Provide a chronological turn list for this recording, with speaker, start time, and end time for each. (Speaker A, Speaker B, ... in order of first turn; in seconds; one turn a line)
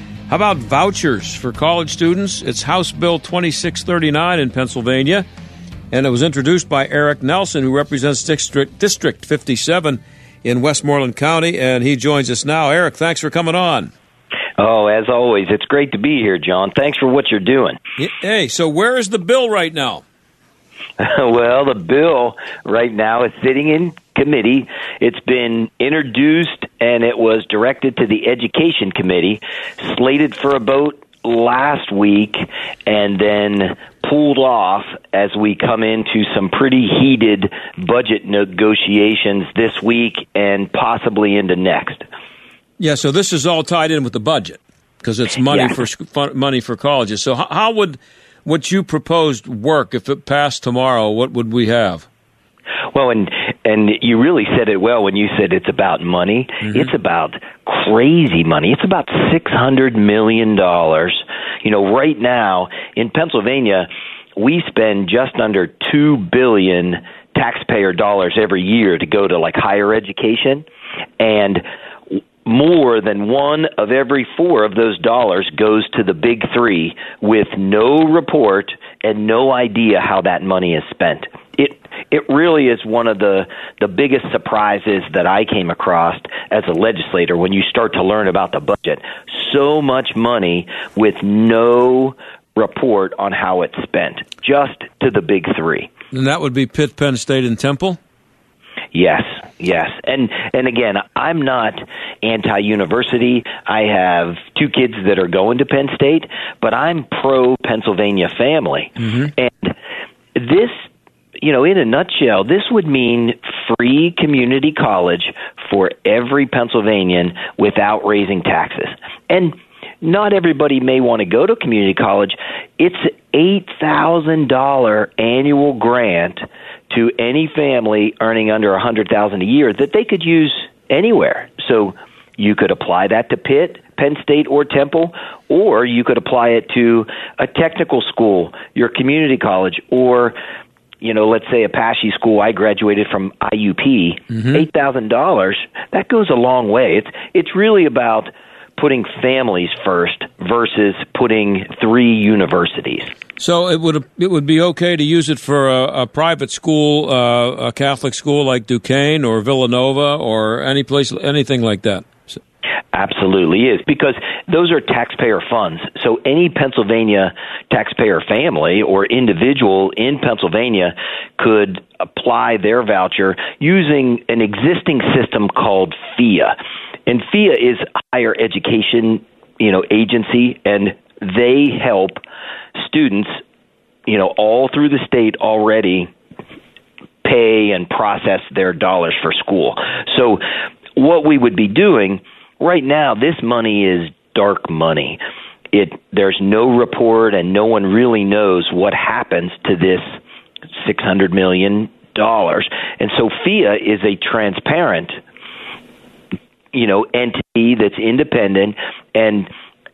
Speaker A: 0.3-5.2
Speaker A: 5.9-13.9
Speaker B: 14.6-17.8
Speaker A: 18.0-20.0
Speaker B: 21.0-42.0
Speaker A: 42.8-52.1
Speaker B: 45.5-45.8
Speaker B: 52.9-70.7
Speaker A: 56.6-56.9
Speaker B: 71.2-71.6
Speaker B: 72.5-95.9
Speaker A: 96.1-98.0
Speaker B: 98.9-109.8
Speaker A: 109.0-109.3
Speaker B: 110.4-110.8
Speaker B: 111.4-140.4
Speaker B: 141.0-153.1
Speaker A: 144.3-144.7
Speaker A: 153.4-162.4
Speaker B: 162.9-176.6
Speaker B: 177.1-182.2
Speaker B: 182.8-183.4
Speaker B: 184.1-186.1
Speaker B: 187.2-190.4
Speaker B: 191.0-195.2
Speaker B: 195.7-200.2
Speaker B: 200.8-205.2
Speaker B: 206.7-209.5